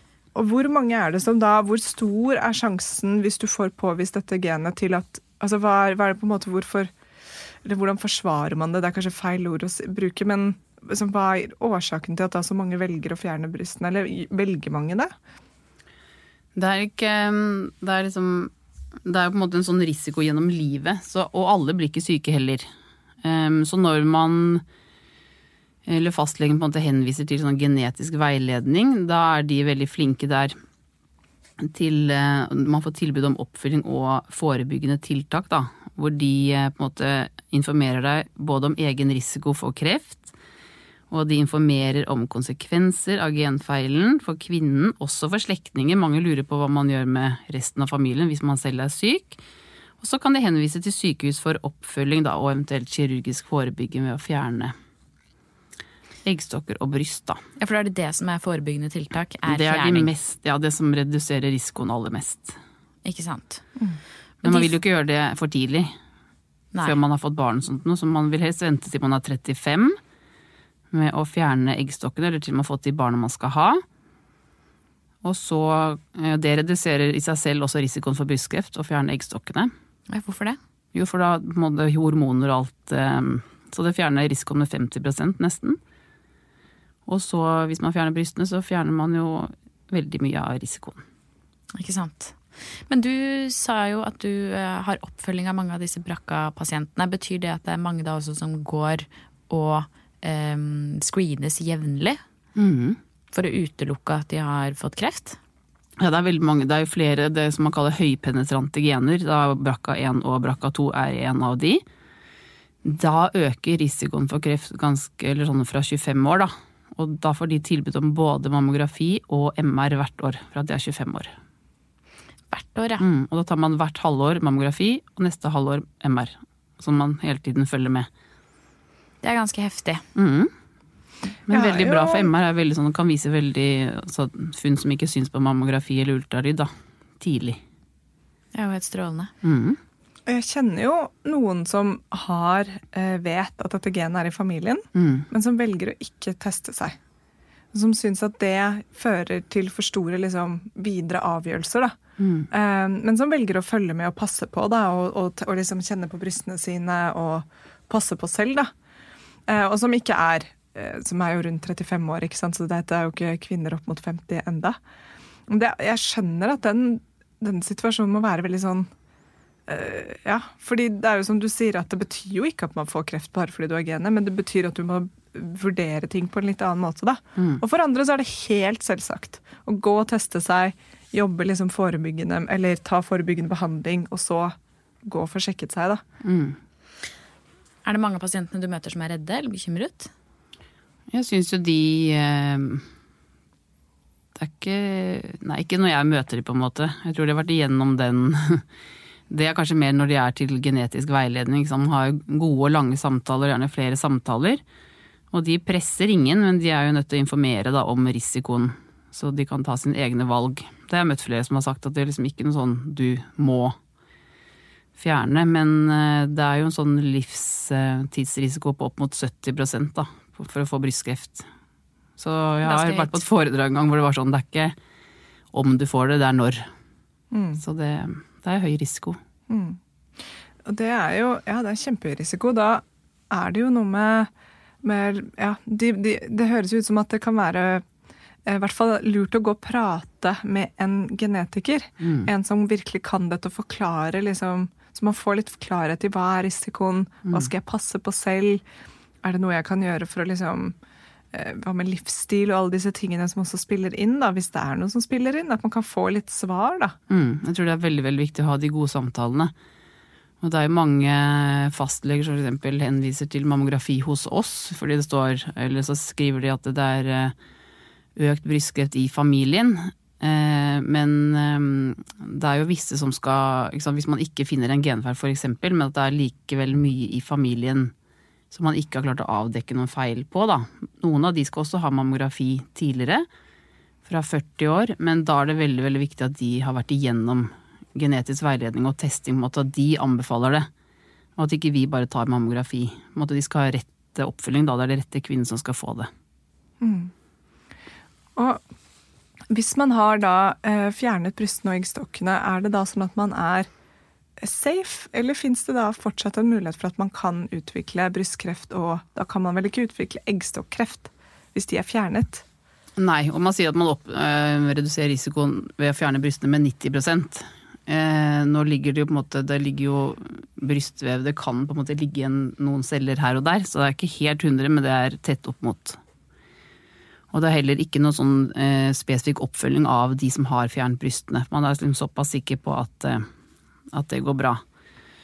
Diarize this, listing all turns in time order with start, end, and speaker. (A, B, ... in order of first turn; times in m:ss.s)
0:00.4-0:06.9 A
0:07.6-0:15.1 A
0:16.6-0:18.5 B
0:19.1-0:22.7 B
0:23.2-0:24.6 B
0:25.9-0:30.5 B
0:31.6-0:40.3 B
0:41.1-0:49.4 B
0:50.0-0:54.7 B
0:56.2-0:57.4 B
0:57.6-1:00.1 C
0:59.5-1:02.6 B
1:03.0-1:03.6 C
1:04.4-1:04.8 C
1:04.4-1:05.9 B
1:06.7-1:07.0 C
1:06.8-1:10.0 B
1:10.9-1:13.8 B
1:15.2-1:19.7 B
1:20.1-1:20.6 C
1:20.9-1:25.8 B
1:27.1-1:31.0 B
1:31.8-1:32.4 C
1:32.9-1:42.2 C
1:42.6-1:43.0 B
1:43.3-1:45.4 C
1:46.0-1:51.8 B
1:52.8-2:01.3 B
2:02.5-2:03.1 C
2:03.0-2:08.1 B
2:09.2-2:10.0 C
2:10.2-2:10.5 B
2:11.5-2:16.7 B
2:11.5-2:12.3 A
2:17.2-2:17.6 B
2:18.5-2:19.3 C
2:19.4-2:19.8 B
2:20.3-2:27.0 A
2:25.0-2:25.3 B
2:27.7-2:32.0 A
2:32.2-2:32.5 B
2:32.5-2:38.7 A
2:39.5-2:44.8 A
2:45.5-2:48.9 A
2:49.7-3:06.0 A
3:06.2-3:06.6 B
3:07.8-3:10.1 C
3:11.1-3:12.8 B
3:14.4-3:18.6 B
3:19.3-3:24.6 B
3:25.3-3:33.8 B
3:35.0-3:41.5 B
3:42.2-3:44.8 B
3:42.6-3:43.2 C
3:45.5-3:46.6 B
3:47.3-3:47.6 A
3:47.6-3:49.2 B
3:49.5-3:49.8 A
3:50.6-3:54.3 A
3:54.8-3:57.8 A
3:58.5-4:08.6 A
4:02.0-4:02.3 B
4:09.2-4:10.8 A
4:11.3-4:17.0 A
4:17.1-4:19.5 B
4:20.4-4:27.4 B
4:28.2-4:37.9 B
4:38.5-4:43.3 B
4:44.0-4:50.7 B
4:51.4-4:56.1 B
4:56.8-4:57.1 A
4:58.4-4:58.6 A
4:59.5-5:03.7 A
5:04.4-5:12.4 A
5:13.0-5:26.0 B
5:27.3-5:33.2 B
5:33.9-5:34.6 B